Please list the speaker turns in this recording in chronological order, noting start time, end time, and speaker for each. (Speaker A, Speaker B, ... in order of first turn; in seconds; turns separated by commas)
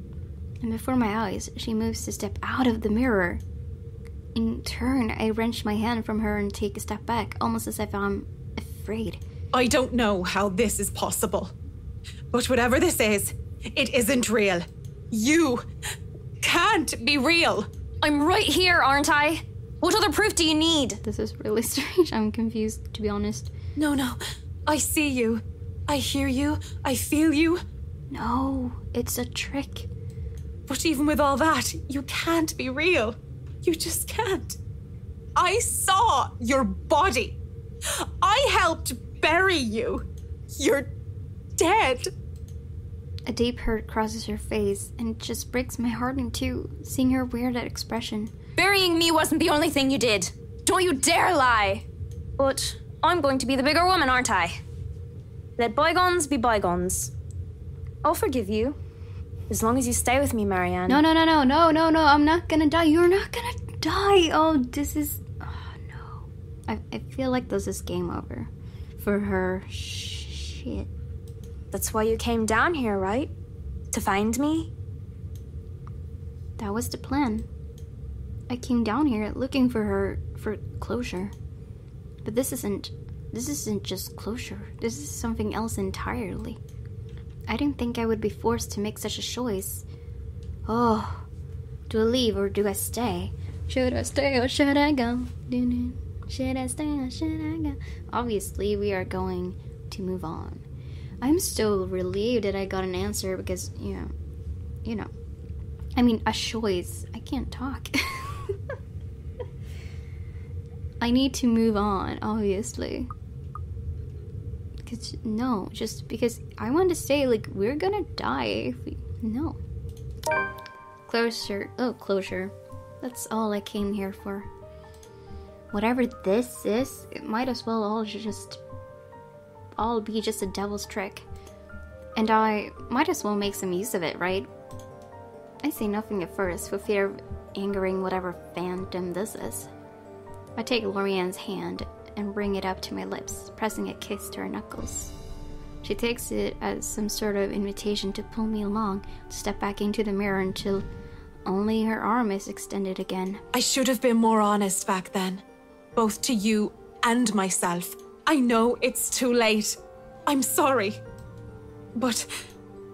Speaker A: 0.6-3.4, Speaker A: 4.3-9.2, Speaker B: 9.5-11.5, Speaker B: 12.3-15.7, Speaker B: 16.4-17.7, Speaker C: 18.0-21.0, Speaker A: 21.0-23.5, Speaker B: 23.8-27.6, Speaker A: 28.1-29.9, Speaker B: 30.7-34.6, Speaker B: 35.4-40.9, Speaker B: 41.5-42.1, Speaker A: 43.3-48.3, Speaker C: 48.6-51.9, Speaker C: 52.4-54.6, Speaker C: 55.6-57.1, Speaker C: 58.0-58.8, Speaker C: 59.5-61.0, Speaker A: 60.9-70.9, Speaker C: 71.7-73.3, Speaker C: 73.9-74.7, Speaker A: 76.6-77.5, Speaker A: 78.5-81.3, Speaker A: 82.2-86.6, Speaker A: 87.5-89.8, Speaker A: 90.7-91.2, Speaker A: 91.9-100.6, Speaker A: 101.2-104.1, Speaker A: 106.0-108.6, Speaker A: 111.0-113.1, Speaker A: 114.8-119.6, Speaker A: 121.1-124.5, Speaker A: 125.7-128.6, Speaker A: 129.8-131.2, Speaker A: 132.2-134.5, Speaker A: 135.6-139.7, Speaker A: 140.6-145.1, Speaker A: 145.8-150.8, Speaker A: 151.4-153.4, Speaker B: 153.5-155.4, Speaker B: 155.9-161.0, Speaker B: 161.9-162.3